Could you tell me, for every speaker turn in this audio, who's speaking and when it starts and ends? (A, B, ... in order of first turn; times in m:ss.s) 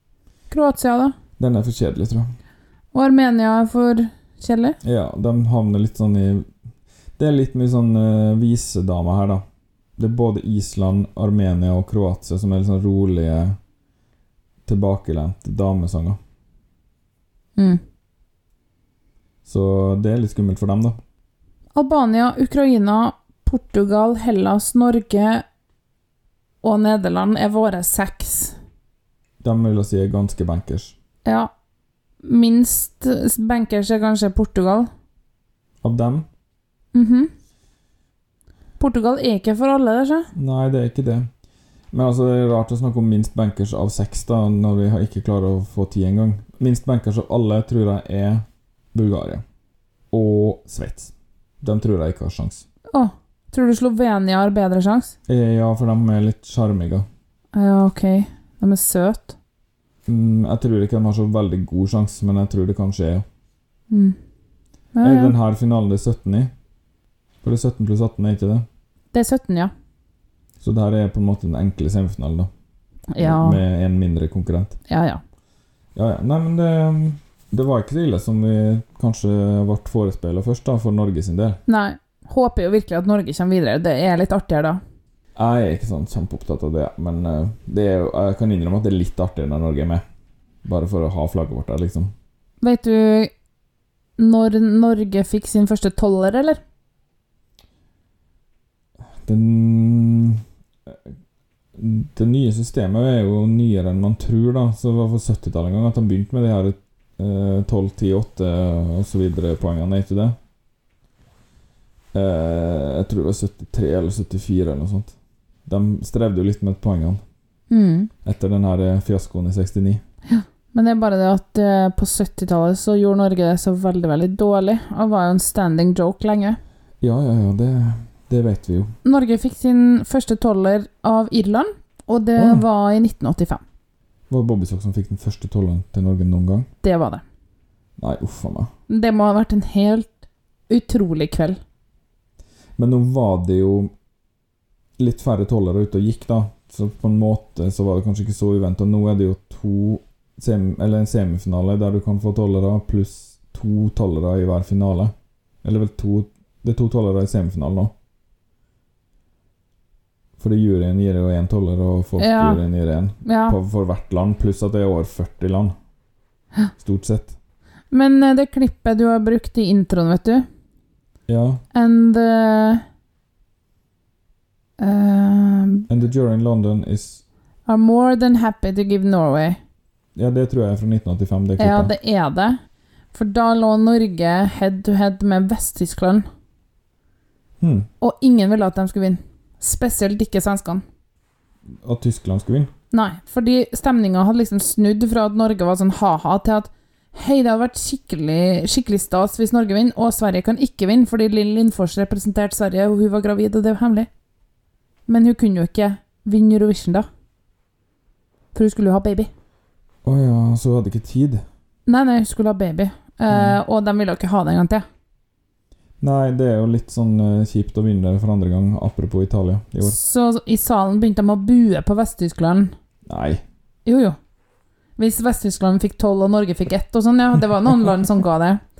0:00.5-0:01.1 A
0:01.4-0:02.3 B
0:02.9-0:04.8 A
0:04.8-0:06.5 B
0:07.2-0:09.4 B
0:10.0-0:13.6 B
0:14.6-0:16.2 B
0:19.4-0:21.0 B
0:21.8-0:25.4 A
0:26.6-0:28.6 A
0:29.4-0:31.0 B
0:32.2-0:34.9 A
0:35.8-0:36.3 B
0:36.9-0:37.3 A
0:38.8-0:40.3 A
0:40.3-0:41.3 B
0:41.9-0:49.4 B
0:50.1-0:52.7 B
0:52.9-0:55.1 A
0:55.3-0:57.1 B
0:57.6-0:59.4 A
1:00.1-1:03.2 B
1:03.9-1:04.2 A
1:05.0-1:05.3 A
1:05.0-1:06.5 B
1:07.4-1:08.7 B
1:09.1-1:09.7 A
1:10.6-1:12.5 B
1:13.1-1:13.6 A
1:13.2-1:14.8 B
1:14.9-1:15.2 A
1:16.0-1:21.6 B
1:21.7-1:24.8 A
1:25.4-1:30.0 B
1:30.6-1:32.1 B
1:32.6-1:33.3 A
1:34.2-1:36.6 A
1:39.2-1:41.0 B
1:41.8-1:50.4 B
1:52.1-1:55.1 B
1:55.7-1:57.2 B
1:57.7-1:58.1 A
1:58.2-2:00.0 B
2:00.3-2:06.6 A
2:07.0-2:08.9 B
2:09.0-2:13.6 A
2:12.4-2:12.6 B
2:14.3-2:16.7 B
2:16.8-2:17.2 A
2:18.0-2:18.7 B
2:18.9-2:21.6 A
2:22.8-2:23.9 B
2:25.0-2:37.9 B
2:40.4-2:45.8 B
2:42.2-2:42.6 A
2:43.2-2:43.6 A
2:46.8-2:47.4 B
2:47.9-2:50.5 A
2:51.3-2:51.6 B
2:51.7-2:52.8 A
2:54.8-2:55.8 A
2:55.9-2:57.2 B
2:57.7-2:59.6 A
3:00.2-3:01.9 B
3:01.6-3:02.6 A
3:03.1-3:06.3 A
3:07.6-3:07.9 B
3:08.0-3:10.8 A
3:11.8-3:12.7 B
3:12.9-3:24.1 A
3:25.1-3:27.1 A
3:28.5-3:29.3 A
3:30.0-3:31.4 B
3:31.9-3:34.8 A
3:33.3-3:33.6 B
3:36.0-3:40.0 B
3:39.8-3:42.7 A
3:43.1-3:43.4 B
3:43.9-3:44.2 A
3:45.0-3:48.6 A